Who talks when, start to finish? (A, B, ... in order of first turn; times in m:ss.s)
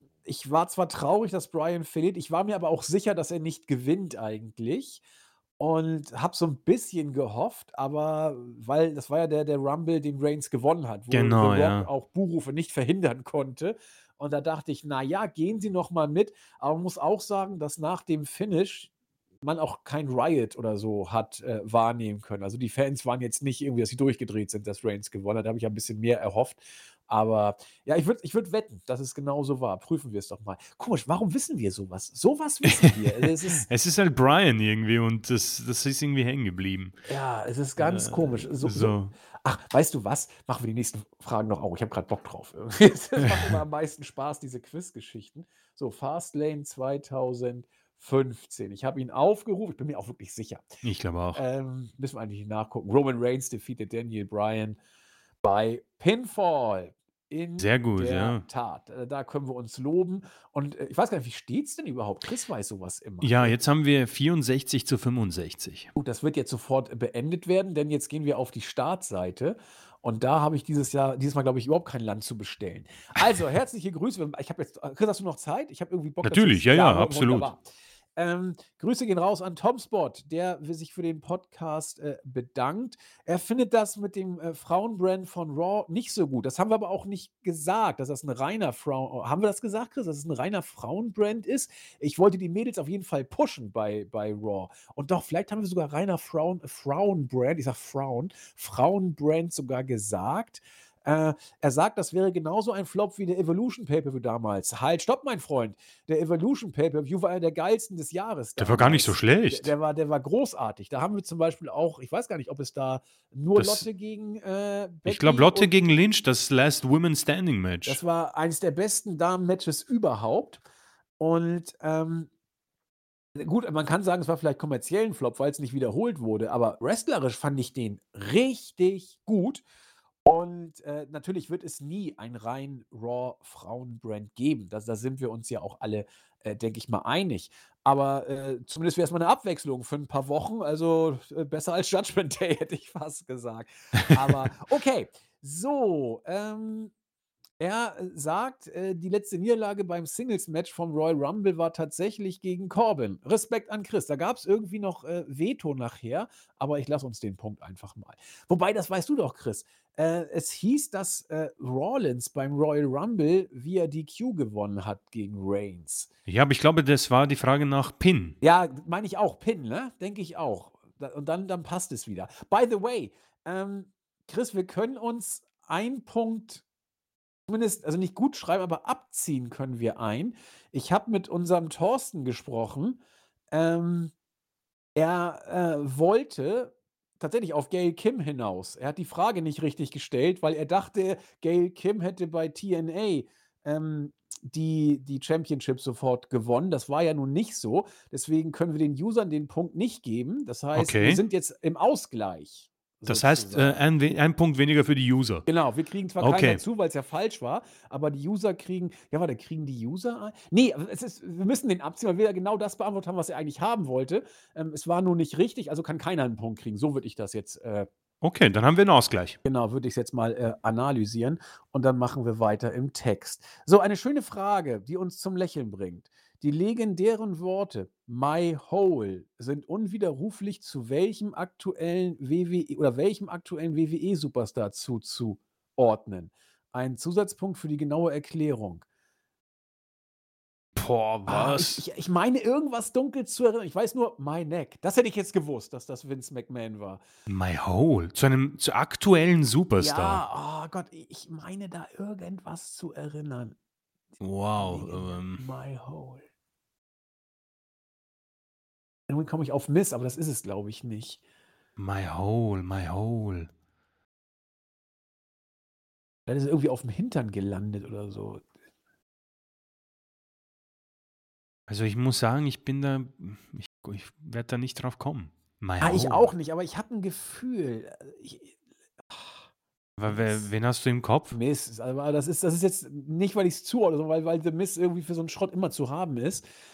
0:00.2-0:05.0 A
0:05.6-0:18.9 A
0:11.1-0:11.9 B
0:19.4-0:33.7 A
0:32.8-0:37.0 B
0:37.0-0:50.7 A
0:37.8-0:39.1 B
0:43.2-0:43.6 B
0:50.8-0:51.4 B
0:51.3-0:54.8 A
0:55.4-1:03.6 A
0:57.6-0:58.4 B
1:03.2-1:05.9 B
1:05.9-1:17.6 A
1:16.2-1:17.5 B
1:18.2-1:55.7 A
1:48.6-1:49.7 B
1:53.6-1:53.8 B
1:55.0-1:58.0 B
1:57.8-2:00.6 A
2:01.2-2:02.3 A
2:03.4-2:09.6 A
2:10.2-2:26.9 A
2:27.6-2:46.1 A
2:46.3-2:48.4 B
2:48.4-2:56.6 A
2:57.5-3:03.0 A
3:03.5-3:04.1 A
3:05.0-3:23.8 A
3:20.7-3:21.2 B
3:23.1-3:25.4 B
3:25.4-3:37.9 A
3:26.2-3:26.6 B
3:38.2-3:39.4 B
3:39.4-3:58.8 A
4:00.7-4:01.8 B
4:01.3-4:07.0 A
4:07.3-4:10.2 B
4:09.8-4:13.5 A
4:14.2-4:15.4 B
4:14.6-4:16.2 A
4:19.1-4:21.2 A
4:21.8-4:23.5 B
4:26.3-4:28.4 A
4:31.7-4:36.3 B
4:35.8-4:38.5 A
4:39.1-4:39.4 A
4:40.0-4:41.4 B
4:40.1-4:40.5 A
4:41.3-4:46.5 A